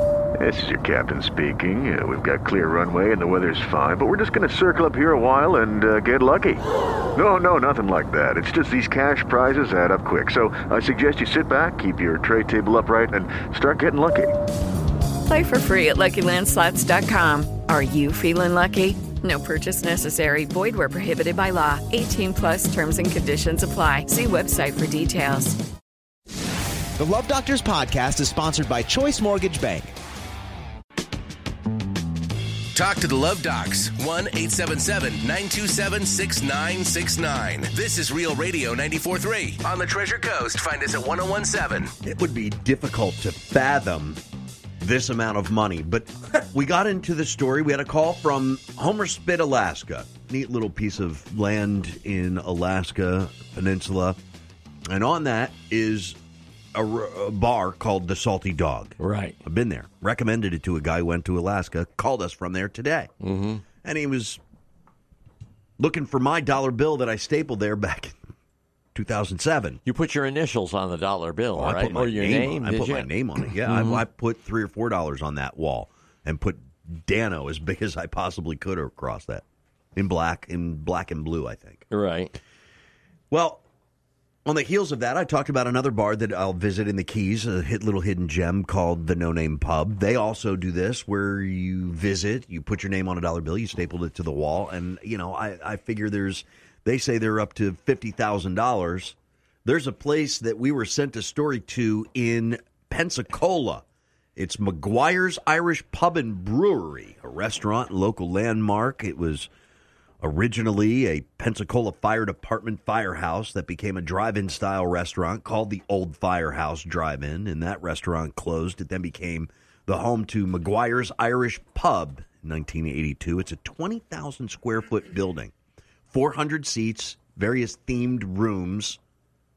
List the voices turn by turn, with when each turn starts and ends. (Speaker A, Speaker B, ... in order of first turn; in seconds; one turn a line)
Speaker A: 0.4-6.6
Speaker A: 7.2-14.3
Speaker B: 15.3-25.6
Speaker C: 27.0-29.9
Speaker D: 32.7-41.9
Speaker E: 42.0-44.2
Speaker E: 44.8-54.2
Speaker E: 54.9-56.2
Speaker E: 56.8-63.1
Speaker F: 59.0-59.4
Speaker F: 63.2-63.7
Speaker E: 63.8-64.4
Speaker E: 65.8-68.2
Speaker E: 68.9-69.8
Speaker F: 69.9-74.0
Speaker E: 71.5-79.4
Speaker E: 80.0-81.9
Speaker F: 81.9-82.3
Speaker E: 83.3-83.6
Speaker E: 84.5-103.8
Speaker E: 104.4-109.5
Speaker E: 110.2-125.5
Speaker E: 126.1-129.0